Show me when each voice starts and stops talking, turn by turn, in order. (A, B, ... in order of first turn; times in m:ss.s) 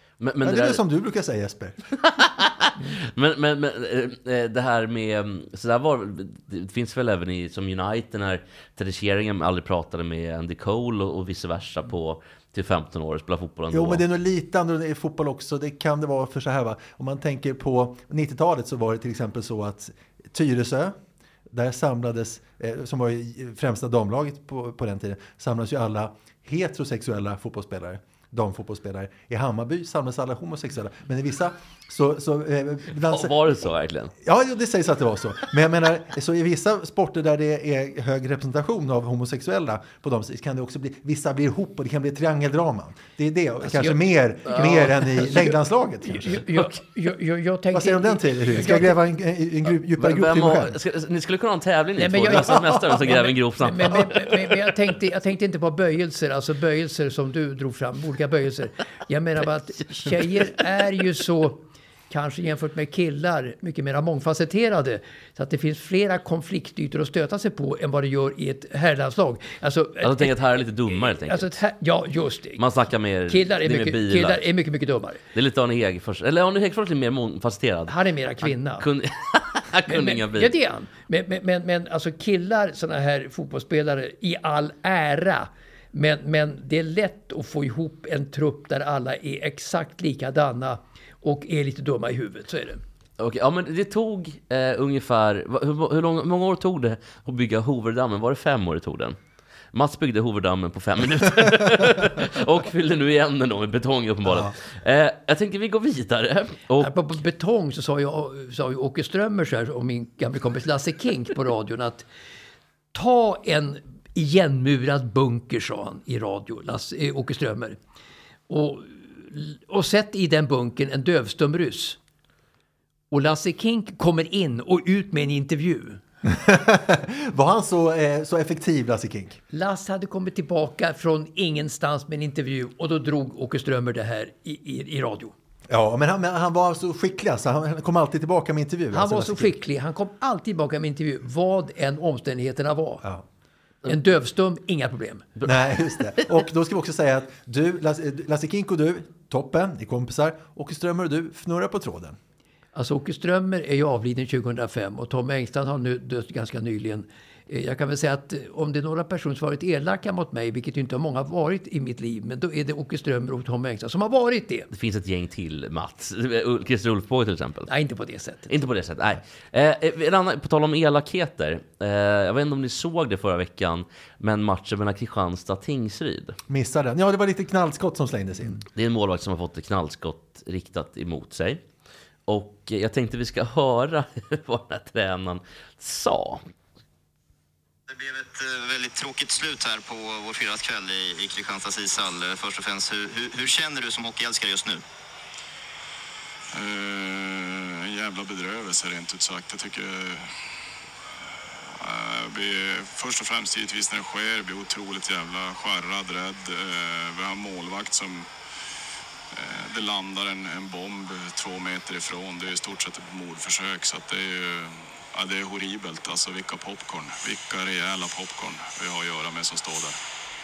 0:00.2-0:00.8 A
0:00.4-0:01.9 B
0:02.0-0:14.0 A
0:13.7-0:20.9 B
0:21.5-0:33.7 B
0:33.1-0:34.1 A
0:34.2-0:46.4 B
0:43.6-0:49.0 C
0:47.7-0:50.8 B
0:50.0-0:54.1 A
0:52.0-1:12.6 C
0:52.3-0:52.8 B
1:10.0-1:11.6 A
1:12.6-1:14.5 A
1:13.3-1:15.2 C
1:15.3-1:20.5 A
1:17.9-1:18.9 C
1:19.9-1:32.8 C
1:33.2-1:39.2 A
1:39.7-1:46.9 A
1:46.8-1:52.0 C
1:52.9-1:57.8 C
1:58.5-2:02.0 C
2:03.1-2:06.0 C
2:06.2-2:09.4 B
2:09.5-2:15.3 C
2:15.7-2:19.5 B
2:18.9-2:23.0 C
2:23.9-2:25.2 C
2:25.4-2:32.2 B
2:32.7-2:44.7 C
2:44.7-2:47.7 A
2:47.7-2:48.5 C
2:48.5-2:56.4 A
2:56.5-2:58.6 B
2:58.7-3:01.6 A
3:02.3-3:06.4 A
3:07.9-3:14.8 D
3:16.5-3:20.4 E
3:21.7-3:28.3 E
3:29.3-3:40.0 E